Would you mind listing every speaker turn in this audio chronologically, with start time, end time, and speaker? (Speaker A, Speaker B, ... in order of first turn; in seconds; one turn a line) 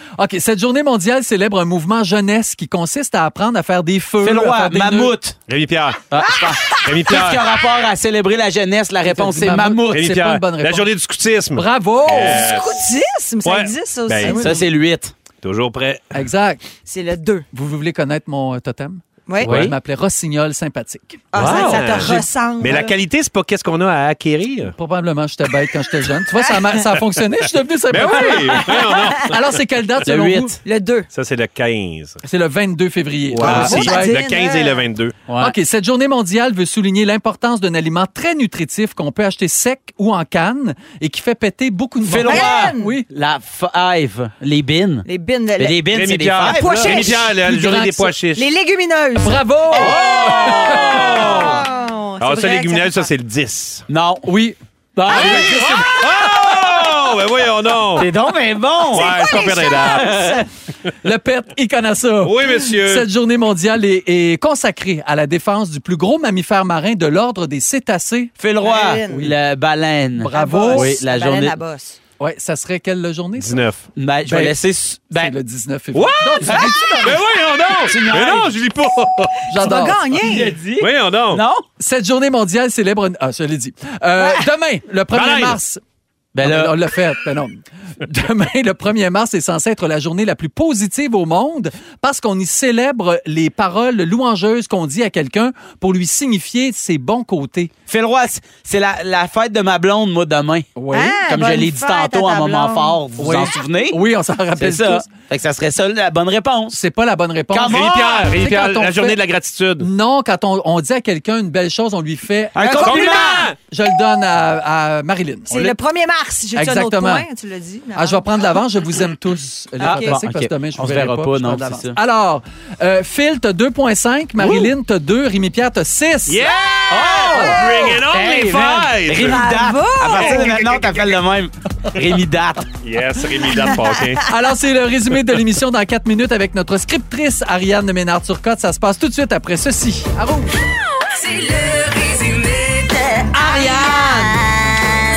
Speaker A: 0.2-5.2
Speaker B: 4.2-5.4
Speaker C: 5.5-7.4
Speaker B: 6.1-10.0
Speaker A: 9.0-10.9
Speaker C: 9.9-12.8
Speaker A: 11.5-12.5
Speaker D: 12.1-14.6
Speaker C: 13.4-14.5
Speaker B: 14.2-15.1
Speaker C: 15.4-16.1
Speaker A: 16.1-16.6
Speaker D: 16.9-17.4
Speaker A: 17.5-21.7
Speaker D: 19.3-19.5
Speaker B: 19.4-19.7
Speaker D: 21.3-22.9
Speaker C: 21.4-24.7
Speaker B: 21.4-21.9
Speaker A: 24.7-30.6
Speaker C: 27.9-29.4
Speaker B: 30.0-30.6
Speaker D: 30.6-31.1
Speaker C: 31.1-32.2
Speaker A: 32.2-34.2
Speaker C: 33.3-35.1
Speaker D: 33.4-34.9
Speaker B: 35.3-35.5
Speaker A: 35.4-43.0
Speaker B: 42.0-45.1
Speaker D: 42.2-43.0
Speaker D: 45.0-45.8
Speaker B: 45.6-47.1
Speaker C: 45.9-48.5
Speaker D: 46.4-47.4
Speaker A: 47.2-48.1
Speaker D: 48.3-53.0
Speaker A: 49.2-51.4
Speaker C: 49.8-51.6
Speaker B: 50.2-51.3
Speaker C: 52.2-53.9
Speaker B: 53.9-54.3
Speaker A: 54.2-55.9
Speaker B: 55.0-55.6
Speaker C: 55.1-58.1
Speaker B: 58.0-59.2
Speaker C: 58.9-60.4
Speaker D: 58.9-60.4
Speaker B: 59.8-60.4
Speaker A: 61.0-68.3
Speaker C: 62.2-63.0
Speaker B: 68.4-71.5
Speaker D: 68.6-69.3
Speaker A: 69.1-69.4
Speaker A: 70.2-71.0
Speaker D: 70.3-72.0
Speaker A: 72.2-73.6
Speaker C: 73.4-73.8
Speaker B: 74.0-75.3
Speaker A: 74.2-77.2
Speaker C: 75.9-79.5
Speaker B: 76.4-77.0
Speaker D: 76.5-77.1
Speaker B: 77.8-78.6
Speaker A: 79.5-80.4
Speaker D: 79.5-80.5
Speaker B: 80.1-81.6
Speaker C: 80.7-81.4
Speaker A: 81.8-85.8
Speaker C: 85.1-85.6
Speaker B: 86.3-86.7
Speaker A: 86.4-97.7
Speaker B: 97.9-100.7
Speaker A: 100.8-101.2
Speaker D: 100.9-103.0
Speaker B: 101.3-104.0
Speaker A: 103.2-105.1
Speaker B: 104.5-106.8
Speaker A: 106.7-109.2
Speaker B: 107.5-107.9
Speaker C: 107.7-109.9
Speaker A: 109.8-115.8
Speaker B: 112.5-113.5
Speaker C: 112.7-113.5
Speaker D: 115.5-118.2
Speaker A: 116.5-117.2
Speaker A: 117.9-126.6
Speaker B: 119.8-122.0
Speaker D: 119.8-120.1
Speaker B: 124.4-124.7
Speaker C: 126.3-129.4
Speaker D: 126.7-127.9
Speaker B: 126.9-132.7
Speaker A: 127.3-128.0
Speaker D: 129.1-130.6
Speaker C: 130.0-131.1
Speaker C: 132.8-134.3
Speaker A: 134.2-140.6
Speaker E: 141.0-143.1
Speaker A: 143.3-144.5